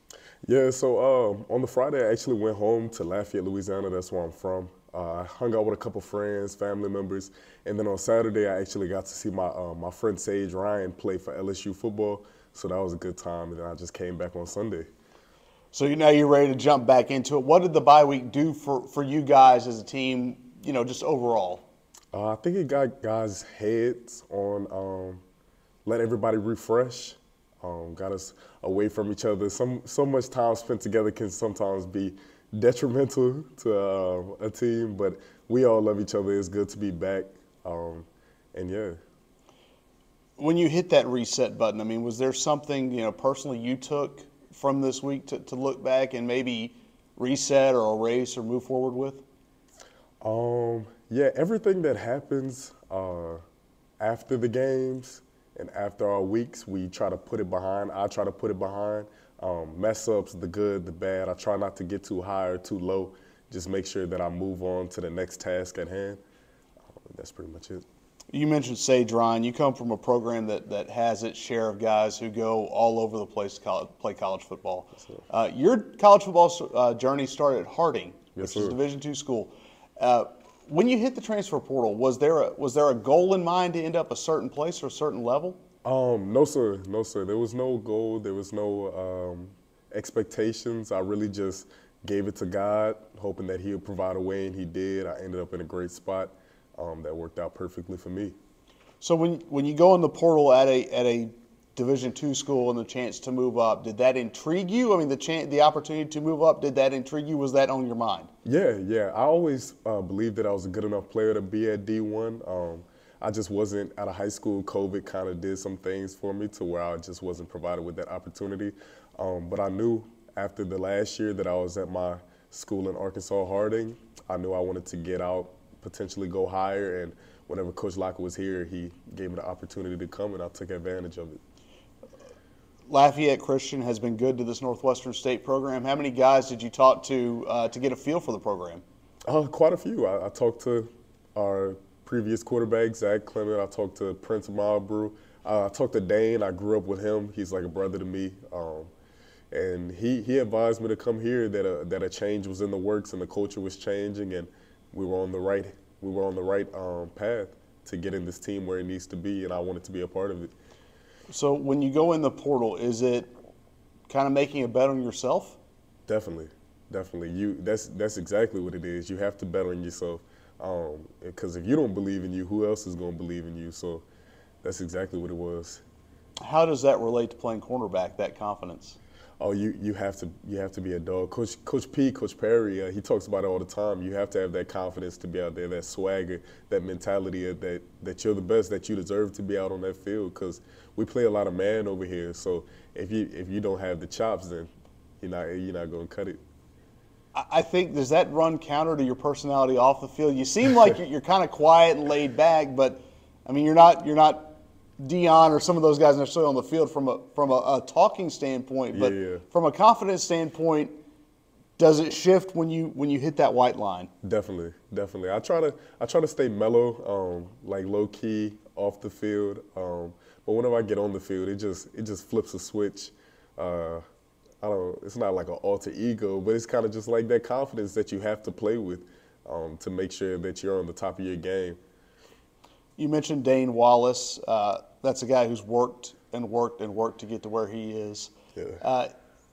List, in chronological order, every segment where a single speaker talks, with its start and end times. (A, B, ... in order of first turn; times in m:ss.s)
0:00.4-0:14.9 A
0:15.7-0:21.6 B
0:22.1-0:25.2 A
0:25.8-0:39.0 A
0:40.4-0:49.2 B
0:50.2-0:53.4 A
0:54.0-1:06.2 A
1:07.0-1:07.8 A
1:08.3-1:25.6 B
1:18.4-1:18.8 A
1:25.8-1:38.4 A
1:39.0-1:48.3 B
1:48.4-2:11.4 A
2:12.9-2:18.8 B
2:19.3-2:28.9 A
2:29.5-2:40.5 A
2:41.3-2:43.3 B
2:44.1-2:45.6 B
2:46.1-2:54.0 A
2:54.6-2:55.8 A
2:56.4-2:59.0 B
2:59.4-3:16.4 A
3:17.4-3:31.0 B
3:28.9-3:29.4 A
3:31.8-3:34.1 B
3:34.2-3:44.0 A
3:44.6-3:51.8 A
3:53.0-3:59.1 B
3:58.6-3:58.8 A